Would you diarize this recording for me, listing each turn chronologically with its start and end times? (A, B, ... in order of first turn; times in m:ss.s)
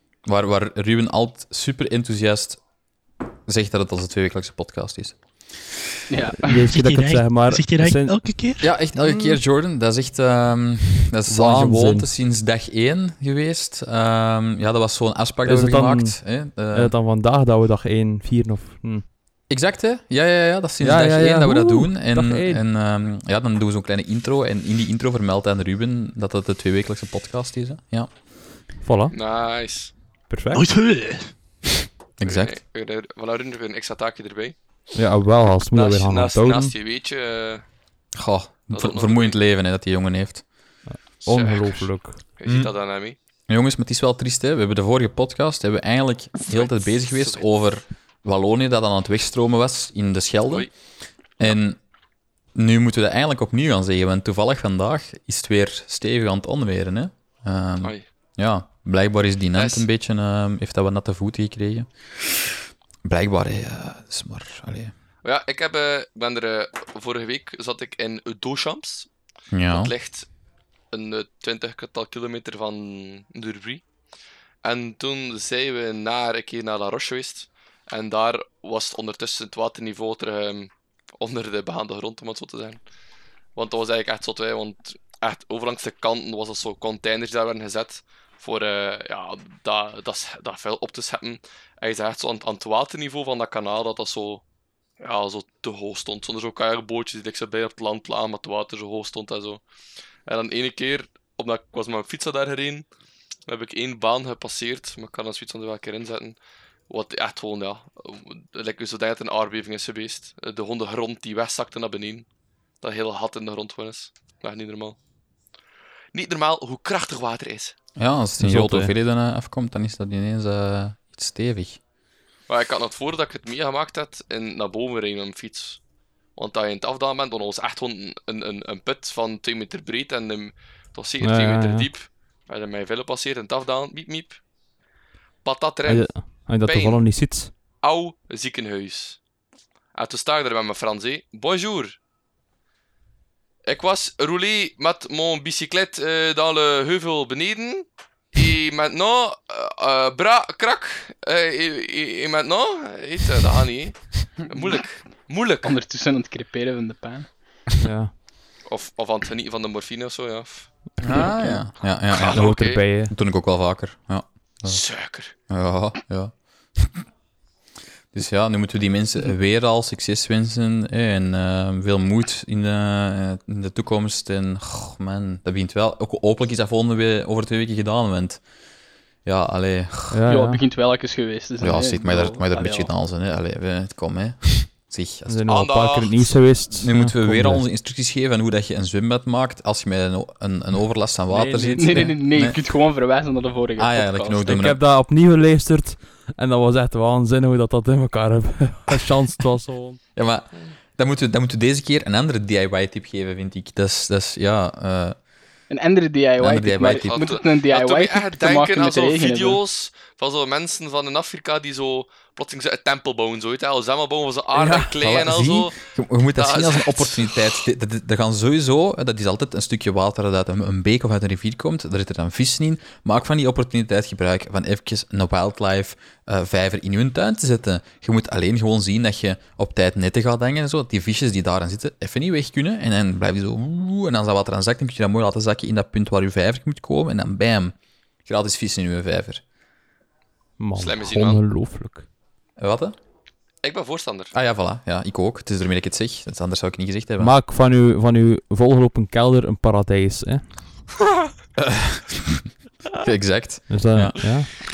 0:00.2-0:02.6 A
0:03.4-0:05.9 A
0:06.1-0:06.7 B
0:06.4-0:08.2 C
0:06.7-0:08.7 D
0:08.6-0:16.9 A
0:11.3-0:12.1 C
0:15.4-0:16.2 C
0:16.7-0:19.0 C
0:19.5-0:28.1 A
0:20.8-0:22.6 C
0:28.8-0:29.1 C
0:29.1-0:29.9 E
0:30.3-0:30.6 C
0:30.5-0:31.3 D
0:32.2-0:32.6 A
0:32.2-0:34.6 E
0:34.9-0:36.7 C
0:35.7-0:37.6 E
0:38.2-0:40.4 A
0:38.7-0:39.4 E
0:40.9-0:42.2 C
0:41.2-0:43.2 E
0:42.4-0:42.7 A
0:43.5-0:50.7 A
0:46.5-0:47.4 E
0:51.4-0:51.8 A
0:52.5-1:04.9 A
0:59.6-0:59.8 E
1:05.2-1:09.1 E
1:09.5-1:09.9 A
1:09.7-1:10.3 E
1:10.9-1:13.8 E
1:14.6-1:22.8 E
1:23.5-1:34.4 E
1:35.0-1:39.6 E
1:40.3-1:42.8 E
1:43.5-1:46.4 E
1:46.9-1:52.2 E
1:52.8-1:55.0 E
1:56.1-1:57.7 E
1:58.0-2:01.8 A
1:58.4-1:58.9 C
2:02.5-2:05.8 E
2:06.4-2:14.4 E
2:11.2-2:11.9 C
2:15.4-2:17.0 E
2:15.8-2:17.5 C
2:17.8-2:19.2 E
2:19.9-2:22.0 E
2:23.6-2:35.7 E
2:35.6-2:37.3 B
2:37.8-2:38.1 C
2:38.6-2:40.7 E
2:41.0-2:44.8 A
2:41.1-2:41.6 C
2:42.1-2:42.8 E
2:42.2-2:43.1 C
2:44.6-2:45.3 E
2:45.5-2:47.0 A
2:48.1-2:58.4 A
2:59.2-3:00.2 A
3:00.1-3:00.6 C
3:00.3-3:02.9 B
3:01.6-3:05.4 A
3:05.3-3:07.6 C
3:05.5-3:06.1 E
3:06.7-3:12.6 A
3:11.3-3:12.2 C
3:11.8-3:14.4 B
3:13.8-3:14.8 A
3:14.4-3:20.0 C
3:20.2-3:25.2 A
3:25.7-3:29.6 B
3:26.4-3:27.2 A
3:26.8-3:35.8 E
3:34.5-3:57.7 A
3:36.4-3:37.4 E
3:58.2-3:59.4 A
4:00.6-4:02.0 C
4:00.8-4:01.4 E
4:02.6-4:03.0 A
4:03.6-4:04.3 E
4:04.3-4:07.3 A
4:07.2-4:10.4 C
4:11.6-4:12.4 A
4:13.0-4:14.1 A
4:13.7-4:14.5 C